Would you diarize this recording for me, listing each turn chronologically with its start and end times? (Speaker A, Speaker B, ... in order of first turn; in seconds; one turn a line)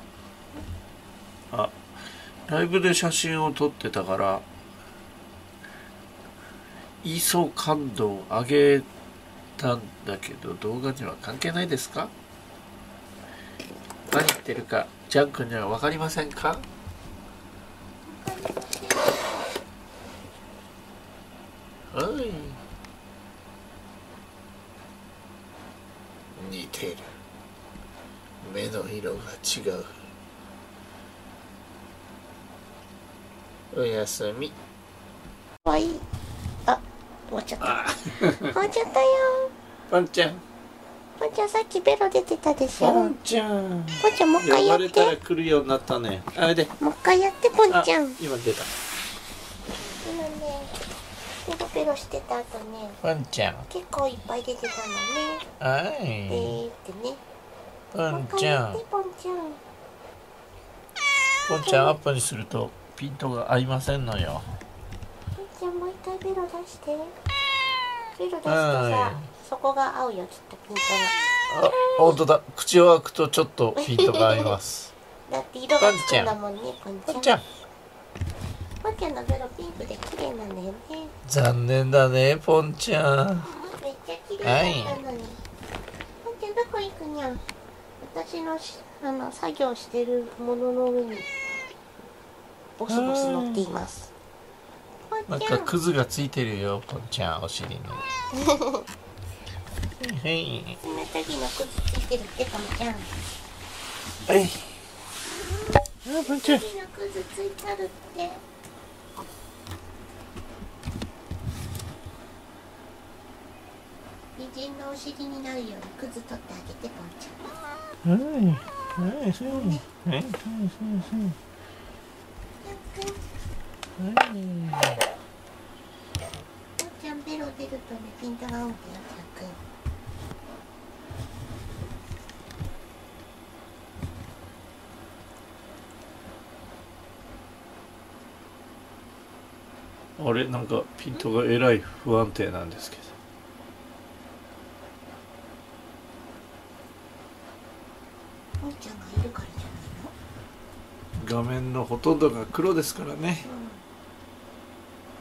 Speaker A: 1.5-1.8
Speaker A: 2.5-4.5
Speaker A: 7.0-8.9
Speaker A: 9.6-12.1
Speaker A: 14.1-16.6
Speaker B: 18.1-19.4
Speaker A: 21.9-22.6
Speaker A: 26.3-27.1
Speaker A: 28.4-30.0
Speaker A: 33.7-34.5
Speaker B: 35.6-36.0
Speaker B: 36.6-37.9
Speaker A: 37.6-38.5
Speaker B: 38.5-39.5
Speaker A: 39.9-40.4
Speaker B: 41.2-43.1
Speaker A: 42.8-46.7
Speaker B: 44.0-45.1
Speaker B: 46.8-48.2
Speaker A: 47.7-48.7
Speaker B: 50.0-50.7
Speaker B: 51.4-53.0
Speaker A: 53.0-53.7
Speaker B: 53.7-55.4
Speaker A: 55.6-56.6
Speaker B: 56.3-57.2
Speaker A: 57.9-58.8
Speaker B: 58.1-59.6
Speaker A: 61.5-64.5
Speaker B: 61.5-62.0
Speaker B: 65.3-67.1
Speaker B: 68.2-72.2
Speaker A: 68.5-69.3
Speaker A: 71.5-74.9
Speaker B: 73.8-74.5
Speaker B: 75.3-77.4
Speaker A: 75.8-76.3
Speaker A: 77.1-77.4
Speaker B: 78.8-81.1
Speaker A: 81.2-83.5
Speaker B: 83.5-85.4
Speaker A: 84.4-85.0
Speaker B: 86.2-87.4
Speaker B: 88.0-91.3
Speaker B: 92.8-94.1
Speaker A: 92.9-93.7
Speaker B: 95.1-95.8
Speaker A: 95.3-98.0
Speaker B: 98.3-98.8
Speaker A: 100.0-100.8
Speaker B: 100.8-103.1
Speaker A: 104.3-104.7
Speaker A: 106.0-106.6
Speaker B: 106.2-108.4
Speaker B: 114.4-117.5
Speaker A: 118.0-121.3
Speaker B: 119.4-119.8
Speaker B: 122.6-123.2
Speaker A: 124.0-125.0
Speaker B: 126.8-129.6
Speaker A: 140.2-143.1
Speaker B: 148.6-150.1
Speaker A: 151.2-153.5
Speaker B: 153.4-153.8